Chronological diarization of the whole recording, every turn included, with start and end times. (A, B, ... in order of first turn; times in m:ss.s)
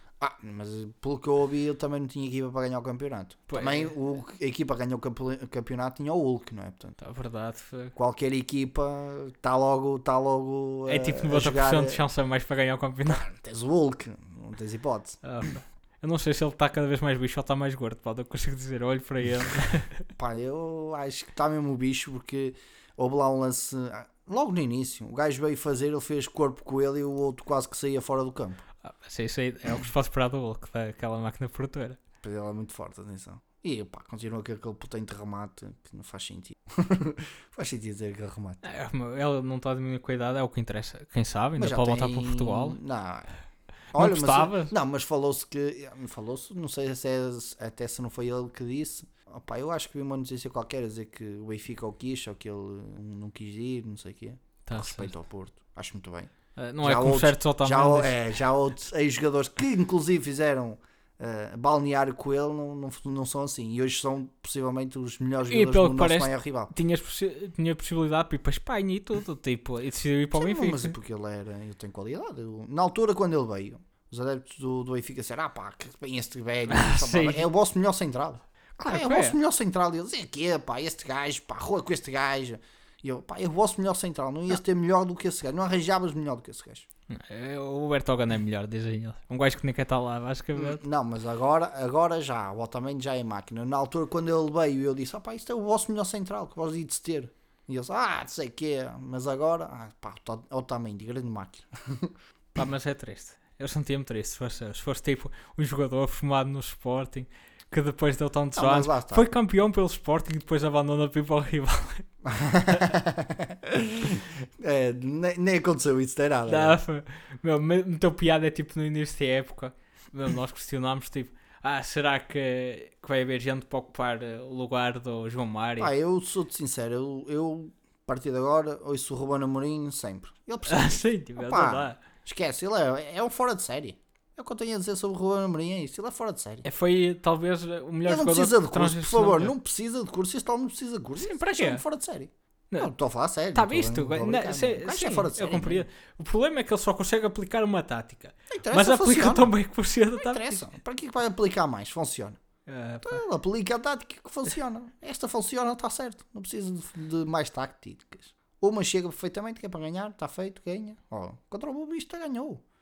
0:00.2-0:07.0 A
0:03.5-0:03.9 B
0:07.0-0:08.0 B
0:08.0-0:12.0 A
0:10.9-0:13.2 B
0:13.1-0:15.2 A
0:15.2-0:20.0 B
0:20.2-0:28.6 A
0:28.8-0:32.0 B
0:32.2-0:38.6 A
0:38.6-0:42.8 B
0:41.6-0:43.3 A
0:43.9-1:06.7 A
0:44.0-0:44.7 B
0:54.7-0:55.1 B
0:56.6-0:58.3 B
1:05.5-1:11.0 B
1:10.3-1:26.9 A
1:16.7-1:17.5 B
1:18.8-1:19.4 B
1:27.1-1:30.8 B
1:30.6-1:42.2 A
1:42.6-1:52.1 B
1:48.6-1:49.3 A
1:52.2-1:56.8 A
1:56.5-2:05.9 B
2:05.8-2:16.7 A
2:10.7-2:12.0 B
2:16.6-2:19.5 B
2:18.1-2:25.9 A
2:21.2-2:21.8 B
2:23.5-2:30.7 B
2:28.5-2:29.5 A
2:30.2-2:32.4 A
2:32.7-2:33.2 B
2:33.0-2:42.6 A